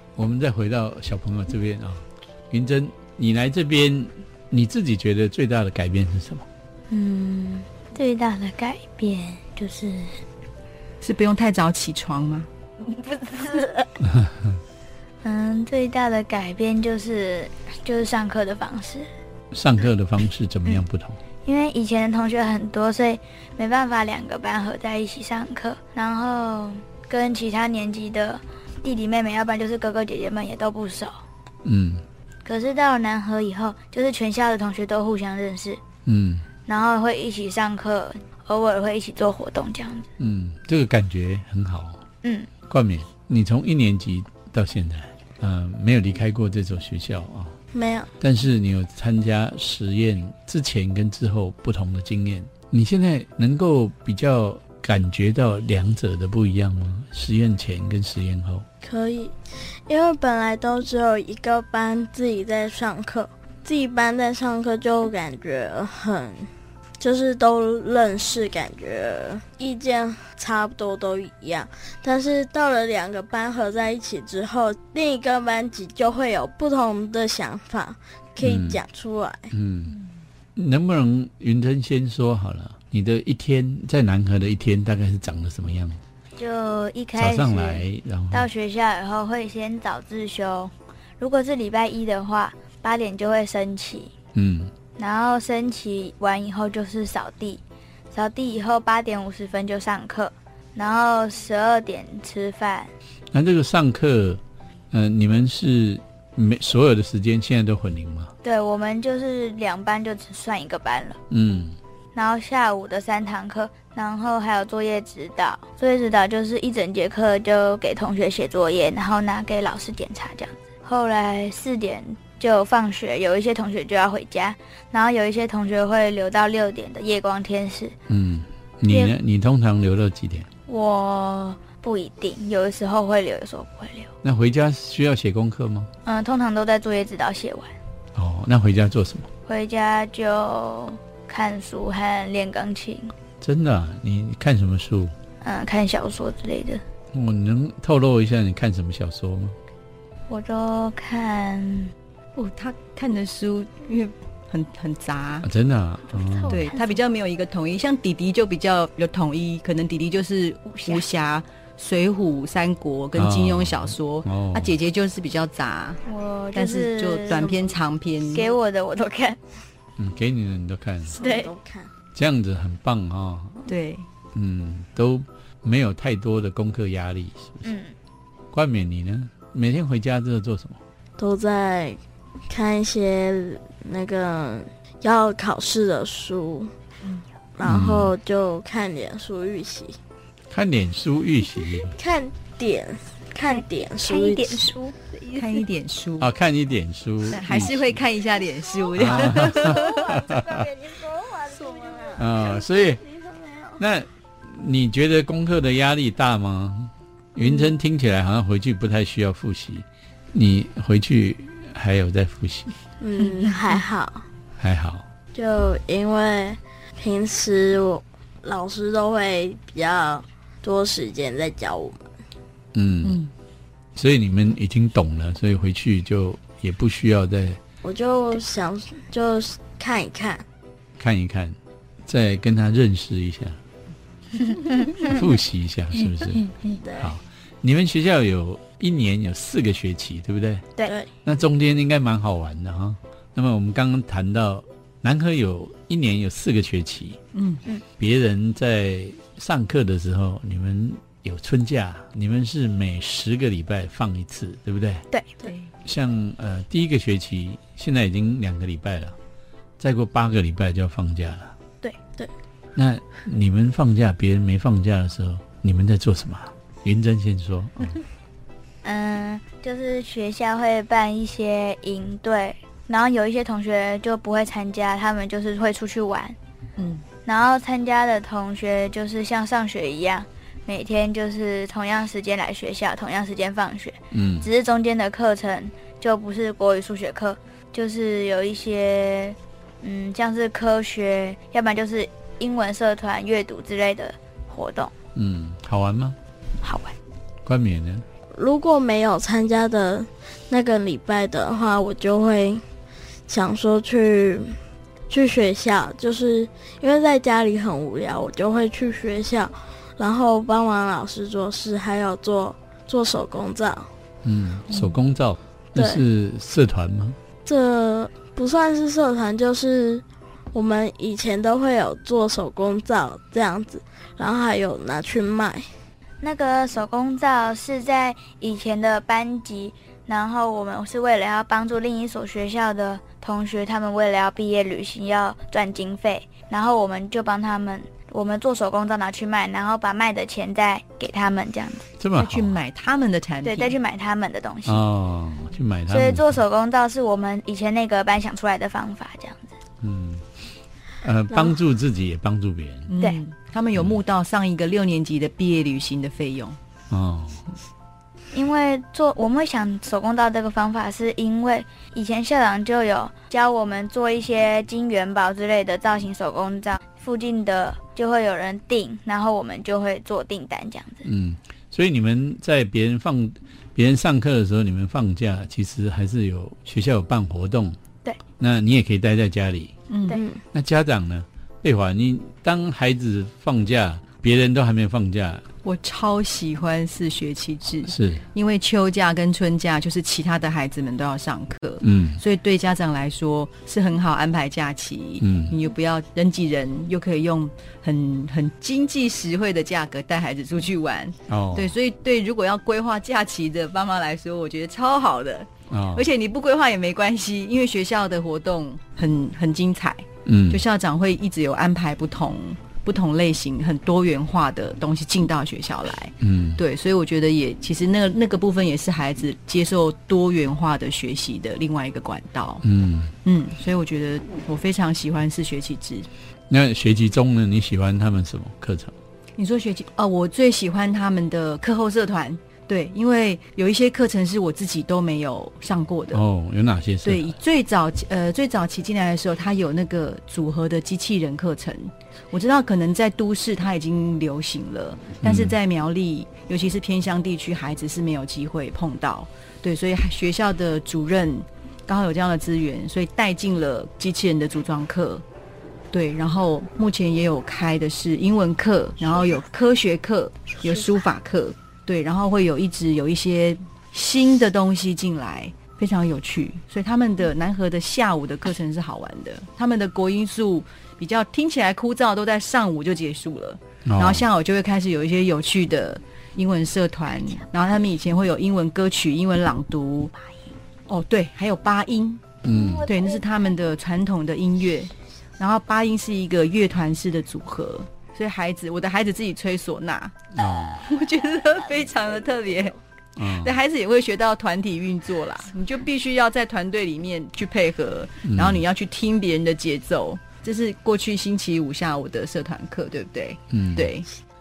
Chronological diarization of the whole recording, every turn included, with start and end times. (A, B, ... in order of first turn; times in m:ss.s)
0:00.2-0:06.4 A
0:06.9-0:10.2 B
0:11.0-0:12.5 C
0:12.8-0:13.9 B
0:14.0-0:14.6 A
0:15.2-0:19.1 B
0:19.5-0:21.2 A
0:21.4-0:31.2 B
0:31.6-0:32.0 A
0:32.4-0:35.8 B
0:36.0-0:36.4 A
0:36.6-0:40.1 B
0:40.2-0:42.0 A
0:42.2-0:42.5 B
0:42.7-0:47.5 A
0:47.7-0:48.1 D
0:48.2-0:58.6 A
0:58.8-1:19.5 D
1:18.4-1:18.8 A
1:19.5-1:20.0 A
1:20.6-1:26.0 A
1:26.4-1:34.1 B
1:27.2-1:28.5 A
1:34.3-1:34.7 A
1:35.0-1:42.9 B
1:43.3-1:44.4 A
1:44.9-1:48.3 A
1:48.4-1:51.2 B
1:51.3-1:51.8 A
1:52.1-2:07.9 B
2:08.1-2:10.5 A
2:08.9-2:09.1 B
2:10.7-2:14.1 B
2:14.2-2:15.9 A
2:16.0-2:17.7 B
2:18.1-2:19.3 A
2:19.5-2:23.1 B
2:23.4-2:25.1 A
2:25.4-2:26.8 B
2:27.1-2:29.6 A
2:30.3-2:31.9 B
2:32.3-2:35.5 C
2:35.4-2:36.6 A
2:36.1-2:37.0 B
2:36.5-2:46.0 C
2:40.7-2:41.0 B
2:43.2-2:44.7 A
2:46.0-2:47.6 B
2:46.5-2:48.5 C
2:48.3-2:49.4 B
2:50.0-2:51.2 A
2:51.1-2:51.9 D
2:51.2-2:51.5 B
2:52.1-2:53.6 A
2:53.7-2:54.0 C
2:54.3-2:57.6 A
2:57.6-2:57.9 B
2:58.5-3:00.8 A
3:01.2-3:06.7 D
3:07.6-3:10.0 D
3:07.6-3:08.1 A
3:10.5-3:11.9 A
3:11.9-3:14.7 D
3:13.5-3:15.6 B
3:15.3-3:16.3 C
3:16.2-3:18.0 A
3:17.2-3:20.1 C
3:19.0-3:20.6 A
3:19.4-3:23.8 D
3:22.2-3:23.0 A
3:23.8-3:32.7 A
3:33.0-3:34.2 D
3:34.6-3:35.0 A
3:35.3-3:42.0 D
3:42.7-3:43.2 A
3:43.0-3:43.3 C
3:44.0-3:47.6 A
3:47.8-3:50.4 D
3:51.0-3:51.5 A
3:52.0-3:53.6 A
3:54.5-3:55.1 B
3:55.0-4:00.6 A
4:01.2-4:07.2 A
4:07.3-4:07.6 C
4:08.0-4:15.0 A
4:15.4-4:15.7 C
4:15.8-4:19.2 A
4:19.8-4:21.5 A
4:22.8-4:28.0 A
4:28.8-4:36.4 B
4:36.8-4:37.0 C
4:37.2-4:54.9 B
4:44.1-4:44.5 A
4:55.1-4:56.2 A
4:56.6-4:56.9 B
4:57.4-4:58.0 A
4:58.3-5:02.6 D
5:03.3-5:04.6 D
5:05.1-5:13.9 D
5:14.2-5:17.2 A
5:15.7-5:16.0 D
5:17.4-5:25.7 D
5:26.2-5:41.9 B
5:42.0-5:42.6 A
5:42.2-5:43.8 C
5:43.4-5:44.8 B
5:44.6-5:46.4 A
5:45.9-5:49.5 B
5:49.8-5:50.2 A
5:51.0-5:52.9 A
5:52.9-5:56.6 C
5:56.9-5:57.4 A
5:58.3-6:11.0 B
6:11.0-6:17.8 A
6:18.4-6:19.8 A
6:19.9-6:20.2 C
6:20.1-6:20.4 D
6:20.5-6:25.4 A
6:25.6-7:02.6 C
6:27.9-6:28.2 A
6:31.8-6:32.2 A
6:35.2-6:35.6 A
6:41.3-6:41.7 A
6:45.7-6:46.1 A
6:50.2-6:50.6 A
6:56.2-6:56.6 A
7:02.6-7:03.1 A
7:03.2-7:06.1 C
7:06.5-7:08.9 A
7:09.4-7:16.2 C
7:16.1-7:17.4 A
7:17.0-7:35.2 C
7:25.2-7:25.5 A
7:35.9-8:00.1 C
7:53.8-7:54.2 A
8:00.9-8:02.2 C
8:02.4-8:02.9 A
8:02.8-8:24.1 C
8:10.3-8:10.9 A
8:13.2-8:13.6 A
8:18.2-8:18.6 A
8:23.5-8:23.9 A